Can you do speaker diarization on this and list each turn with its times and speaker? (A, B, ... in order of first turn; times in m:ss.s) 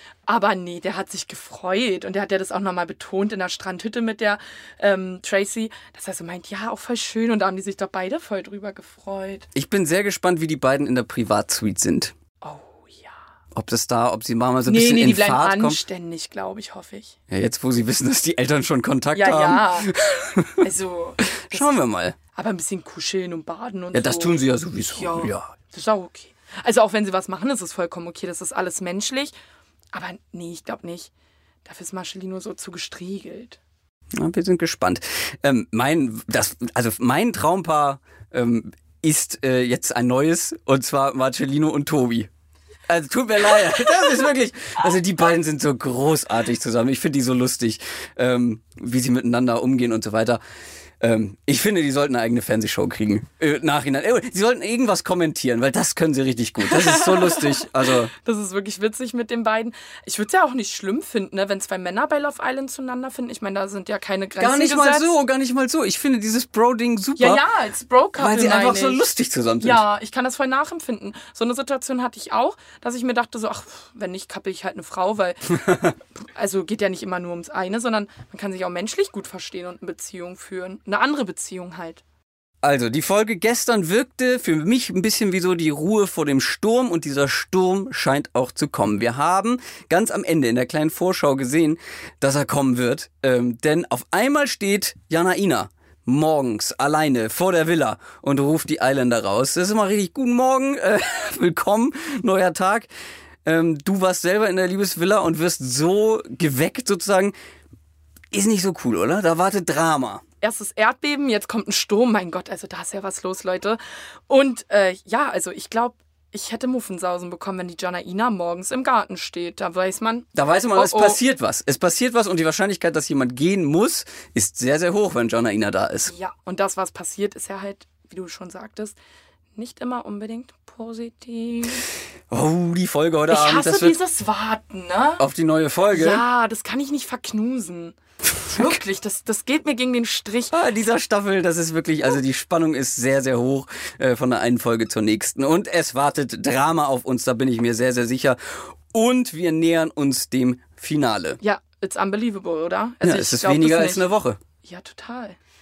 0:00.3-0:09.5 A
0:09.5-0:12.1 B
0:12.4-0:13.2 A
0:13.5-0:15.8 B
0:14.6-0:17.1 A
0:17.3-0:20.6 B
0:19.1-0:20.0 A
0:20.6-0:21.8 A
0:21.4-0:22.2 B
0:22.3-0:29.3 A
0:23.9-0:25.5 B
0:29.9-0:31.1 A
0:31.6-0:33.6 A
0:34.2-0:42.3 B
0:42.9-0:50.4 B
0:51.0-0:58.1 B
0:56.6-1:05.1 A
1:04.4-1:07.4 B
1:07.2-1:09.0 A
1:08.2-1:09.8 B
1:09.6-1:22.0 A
1:22.6-1:42.9 B
1:43.4-1:47.3 B
1:48.3-1:50.2 B
1:50.4-2:01.2 A
2:00.3-2:06.1 B
2:06.1-2:09.0 A
2:09.6-2:11.8 A
2:12.3-2:14.0 B
2:13.3-2:15.2 A
2:15.2-2:16.2 B
2:15.9-2:20.6 A
2:20.5-2:31.4 B
2:31.4-2:34.1 A
2:33.0-2:34.4 B
2:34.6-2:35.4 A